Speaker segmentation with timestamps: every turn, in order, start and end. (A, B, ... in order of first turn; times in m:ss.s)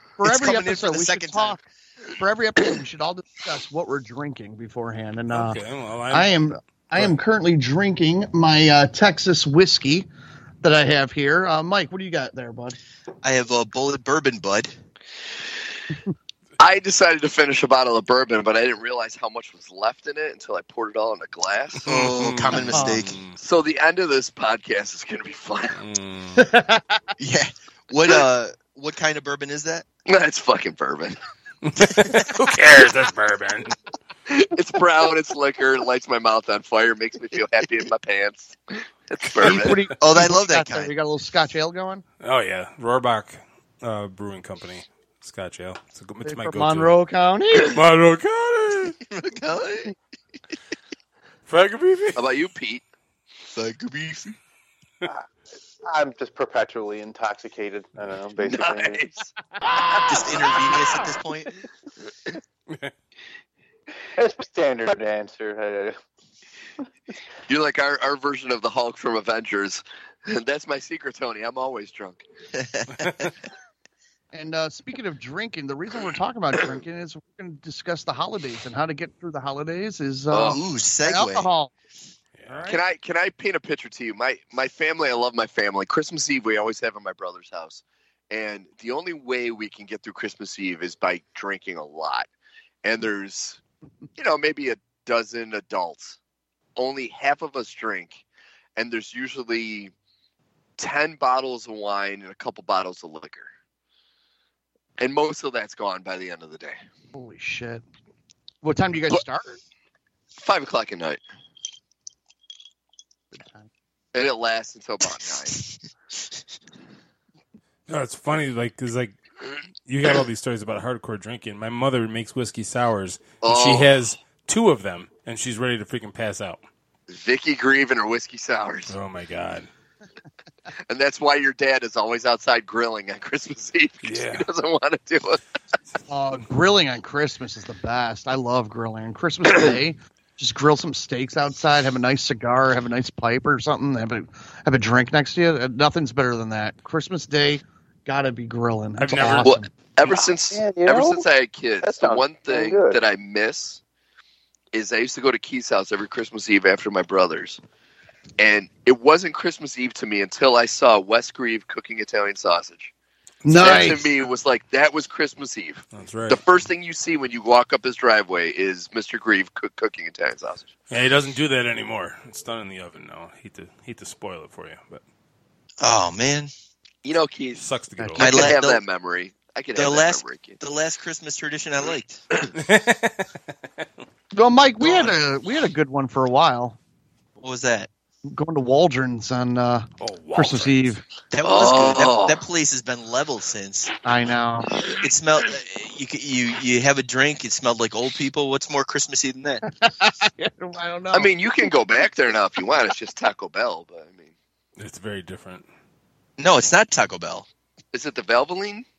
0:00.2-0:10.1 A
0:00.2-0:01.6 B
0:05.3-0:06.4 C
0:10.6-0:12.8 A
0:13.2-0:14.8 B
0:16.6-0:21.9 D
0:21.8-0:23.4 C
0:21.9-0:23.2 B
0:22.7-0:23.0 A
0:23.4-0:25.8 D
0:25.8-0:26.5 C
0:26.4-0:27.0 A
0:27.2-0:29.9 B
0:30.1-0:31.2 D
0:31.6-0:33.8 C
0:34.3-0:39.8 D
0:39.4-0:42.0 A
0:40.0-0:40.9 B
0:42.2-0:47.0 C
0:46.2-0:47.8 A
0:47.7-0:49.0 C
0:49.1-0:50.0 B
0:51.5-0:52.3 C
0:52.2-0:52.8 D
0:53.5-0:54.4 B
0:55.8-0:59.0 E
0:58.4-0:59.3 D
1:00.1-1:01.5 B
1:04.2-1:06.0 E
1:07.5-1:12.2 D
1:12.5-1:13.3 B
1:14.3-1:21.7 A
1:20.3-1:20.6 D
1:20.5-1:21.5 B
1:22.4-1:22.7 C
1:22.5-1:22.8 A
1:22.7-1:32.3 D
1:32.8-1:33.6 D
1:34.2-1:36.2 D
1:36.8-1:38.2 D
1:38.8-1:39.9 D
1:40.8-1:43.5 D
1:45.0-1:46.8 D
1:47.1-1:47.8 A
1:48.6-1:49.6 A
1:50.4-1:51.2 D
1:53.3-1:53.7 A
1:54.1-1:55.6 D
1:57.9-1:59.2 C
1:59.9-2:06.6 C
2:03.4-2:04.0 D
2:07.1-2:08.9 D
2:08.9-2:09.7 C
2:10.9-2:15.4 D
2:14.0-2:14.5 C
2:16.1-2:29.7 A
2:29.0-2:29.6 C
2:29.4-2:33.8 D
2:30.0-2:31.2 E
2:31.8-2:33.0 E
2:34.7-2:37.6 D
2:38.4-2:42.9 D
2:43.4-2:44.1 C
2:43.4-2:44.0 A
2:43.6-2:50.7 D
2:45.9-2:46.4 C
2:50.9-2:55.0 C
2:55.8-2:56.5 B
2:57.0-2:57.7 D
2:57.6-2:58.5 C
2:58.0-2:58.5 A
2:58.2-2:58.8 B
2:58.2-3:00.6 D
2:59.8-3:02.2 B
3:02.6-3:03.8 C
3:04.4-3:06.8 A
3:04.8-3:05.2 C
3:07.4-3:07.9 B
3:08.3-3:11.0 A
3:10.0-3:11.0 C
3:11.3-3:13.9 B
3:11.4-3:12.4 D
3:14.0-3:14.7 A
3:15.0-3:19.6 B
3:19.6-3:21.3 A
3:21.1-3:24.3 D
3:24.8-3:25.7 C
3:26.4-3:27.5 B
3:27.9-3:28.9 D